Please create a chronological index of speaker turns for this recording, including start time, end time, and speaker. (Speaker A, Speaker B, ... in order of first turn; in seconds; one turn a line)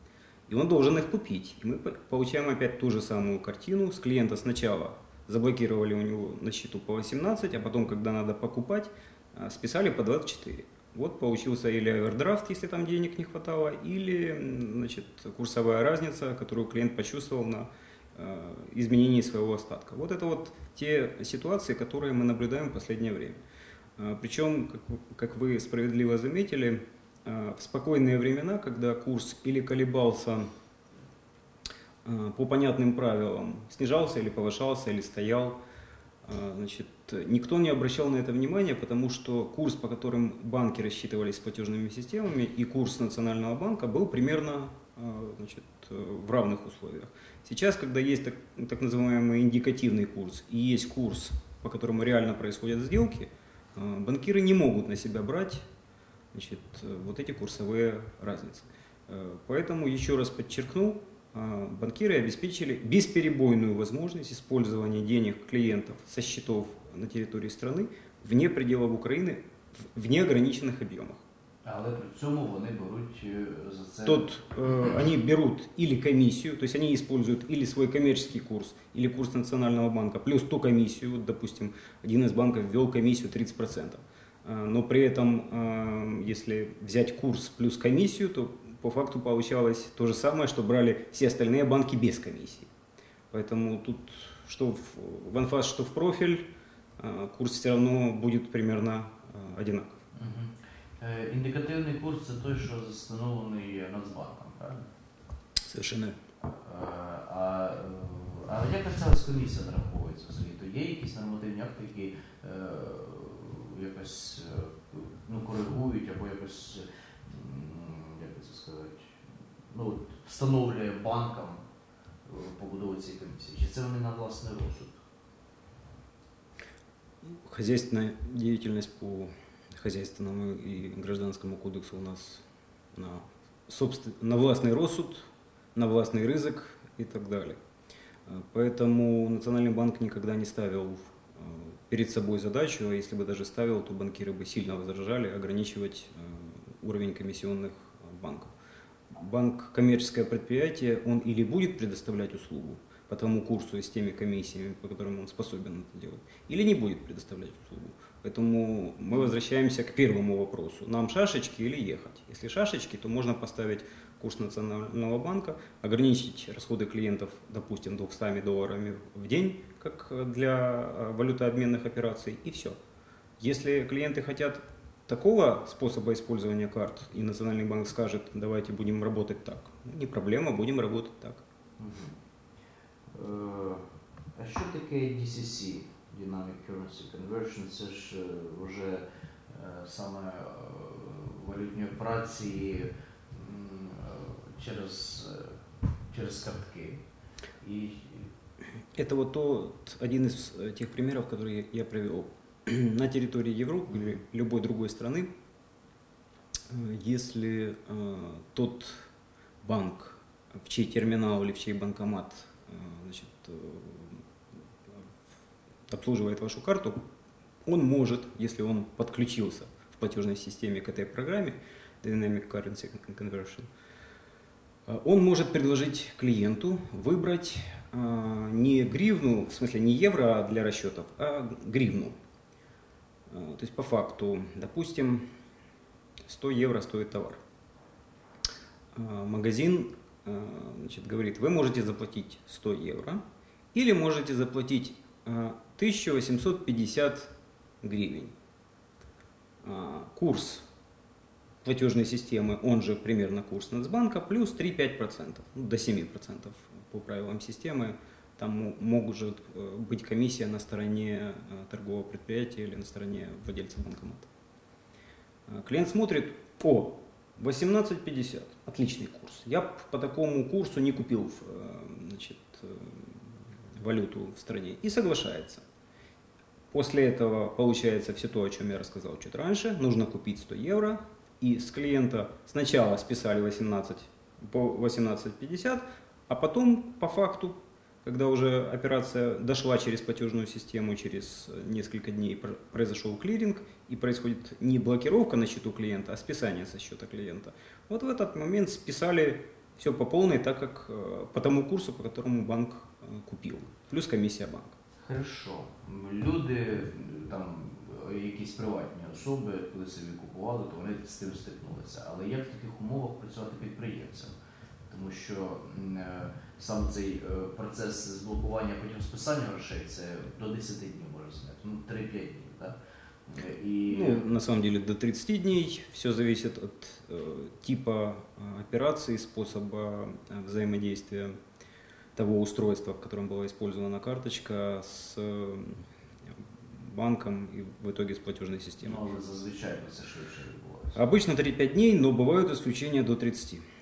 Speaker A: 0.5-23.4
Speaker A: 24.0-30.5
Speaker A: 32.0-35.6
Speaker A: 36.2-55.6
Speaker A: 56.3-69.4
Speaker A: 69.9-71.2
Speaker B: 71.7-74.9
Speaker A: 74.0-92.7
Speaker A: 93.3-96.4
Speaker A: 97.0-99.9
Speaker B: 100.2-104.8
Speaker A: 105.7-106.2
Speaker B: 106.4-119.2
Speaker B: 119.7-121.6
Speaker B: 122.2-125.0
Speaker A: 127.2-137.6
Speaker A: 138.3-148.5
Speaker A: 149.1-172.8
Speaker A: 173.4-181.4
Speaker B: 181.8-182.2
Speaker B: 183.1-195.6
Speaker B: 196.1-197.0
Speaker B: 197.6-198.3
Speaker A: 198.9-205.3
Speaker A: 206.7-209.1
Speaker A: 209.6-214.2
Speaker A: 215.9-217.0
Speaker A: 217.7-223.7
Speaker A: 224.8-232.2
Speaker A: 233.3-235.2
Speaker A: 236.2-237.4
Speaker A: 238.9-243.2
Speaker A: 243.7-248.3
Speaker A: 249.6-250.7
Speaker A: 251.6-264.3
Speaker A: 265.5-275.6
Speaker A: 276.7-304.8
Speaker B: 305.0-314.3
Speaker B: 314.9-322.8
Speaker B: 323.3-324.2
Speaker A: 323.9-331.3
Speaker A: 332.1-339.0
Speaker B: 338.8-341.0
Speaker A: 340.9-343.6